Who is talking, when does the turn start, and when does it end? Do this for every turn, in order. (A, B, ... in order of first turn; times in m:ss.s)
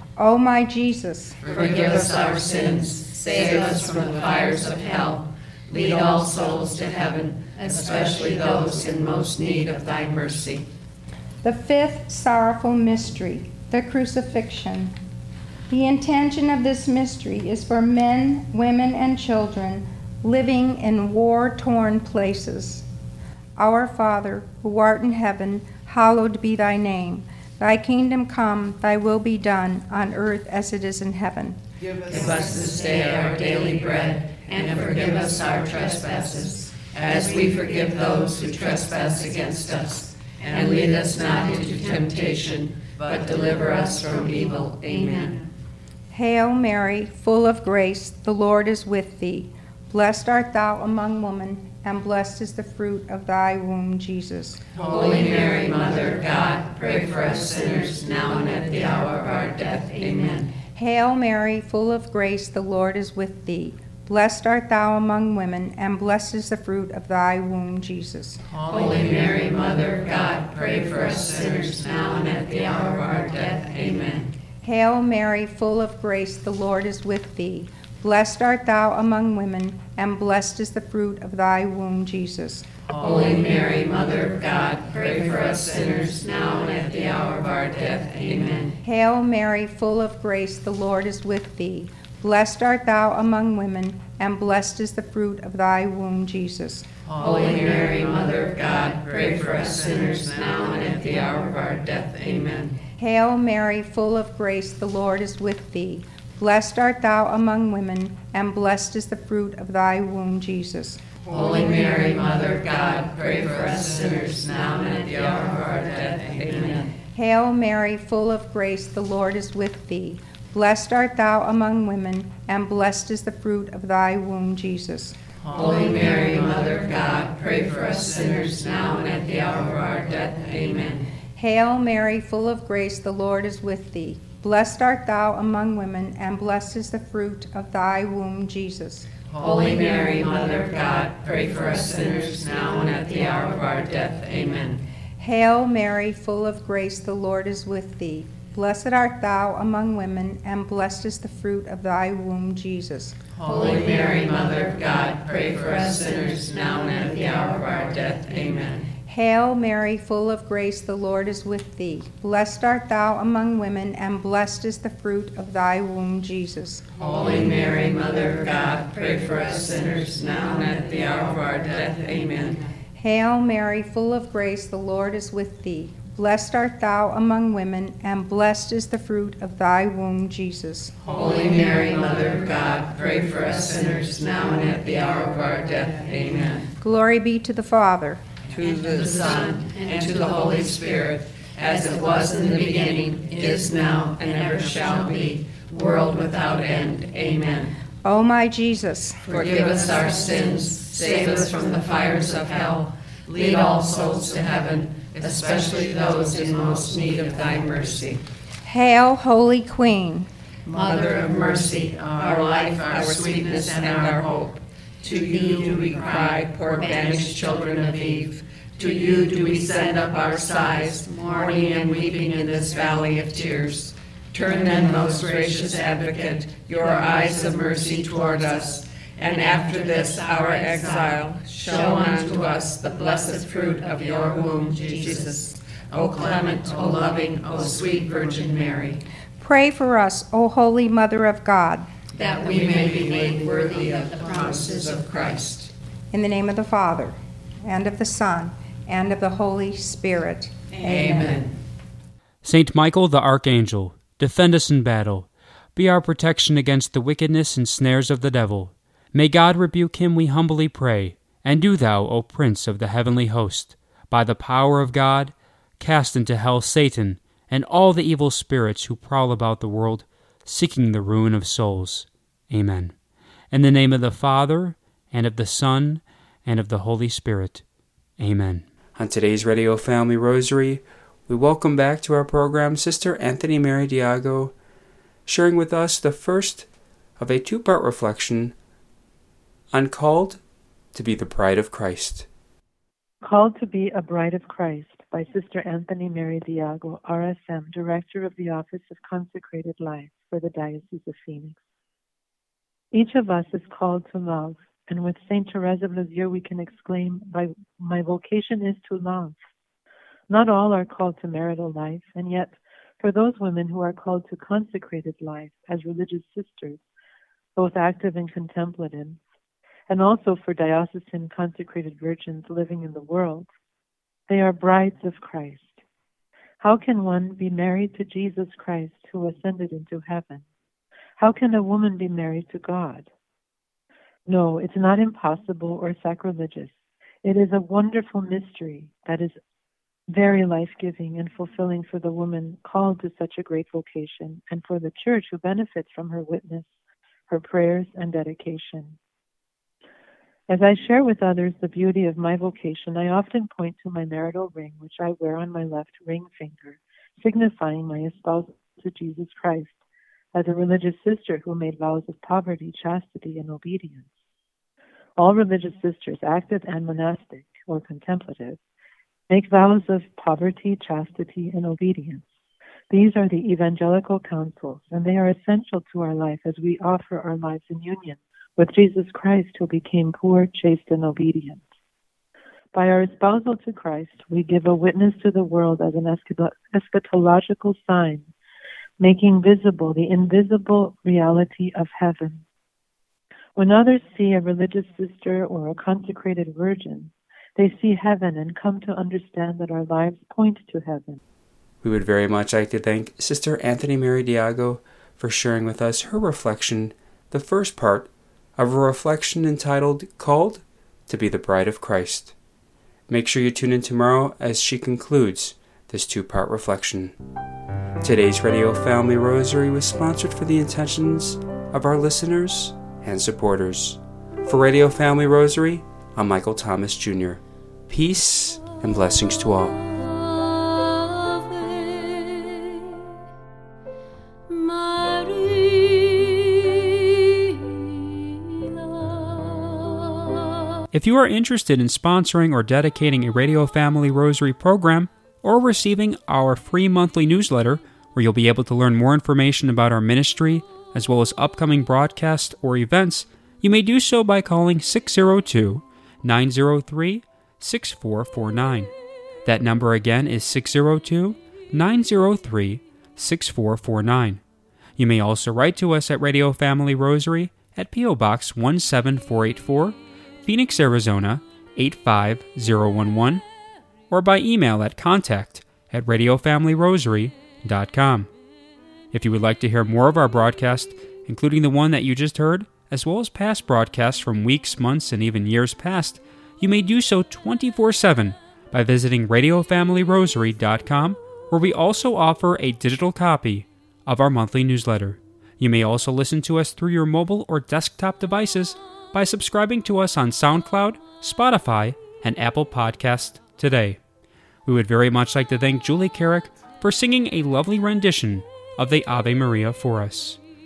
0:00.2-0:01.4 A
0:01.4-0:10.7 B
0:11.4-0:15.0 A
0:15.7-0:22.8 A
0:23.6-0:31.6 A
0:32.1-0:45.5 B
0:46.1-0:54.6 A
0:54.8-1:00.5 B
1:00.8-1:08.4 A
1:08.6-1:14.3 B
1:14.6-1:22.7 A
1:23.0-1:28.8 B
1:28.8-1:36.9 A
1:37.2-1:42.8 B
1:43.0-1:51.0 A
1:51.3-1:56.9 B
1:57.1-2:05.2 A
2:05.5-2:11.1 B
2:11.4-2:19.1 A
2:19.4-2:24.8 B
2:25.2-2:33.2 A
2:33.4-2:38.9 B
2:39.1-2:46.8 A
2:47.0-2:52.6 B
2:53.0-3:01.0 A
3:01.1-3:06.7 B
3:06.8-3:08.2 A
3:08.5-3:17.7 B
3:18.0-3:19.3 A
3:19.3-3:28.2 B
3:28.6-3:30.3 A
3:30.7-3:59.0 B
3:59.4-4:01.9 A
4:02.2-4:05.7 B
4:06.1-4:11.4 A
4:10.8-4:11.5 B
4:12.4-4:32.9 C
4:33.5-4:37.6 C
4:38.2-4:44.5 C
4:45.3-4:46.7 C
4:47.2-4:48.6 C
4:49.7-4:50.4 C
4:50.9-4:52.3 C
4:53.2-5:01.6 D
5:02.9-5:09.4 D
5:10.3-5:16.8 D
5:17.6-5:19.2 D
5:19.9-5:23.5 D
5:24.3-5:25.8 D
5:26.6-5:30.4 D
5:31.2-5:33.1 D
5:34.3-5:36.7 D
5:37.2-5:39.4 D
5:40.1-5:46.7 D
5:47.3-5:49.0 D
5:50.5-5:59.7 D
6:00.3-6:04.1 D
6:05.2-6:08.6 D
6:09.3-6:12.3 D
6:12.9-6:21.6 D
6:22.7-6:28.3 D
6:29.0-6:32.4 D
6:33.6-6:41.2 D
6:41.8-6:52.3 C
6:53.1-6:57.2 C
6:58.0-7:09.8 C
7:20.9-7:38.9 C
7:39.4-7:44.4 C
7:45.0-7:53.4 C
7:54.1-7:58.3 C
7:59.1-8:24.0 C
8:24.7-8:30.4 C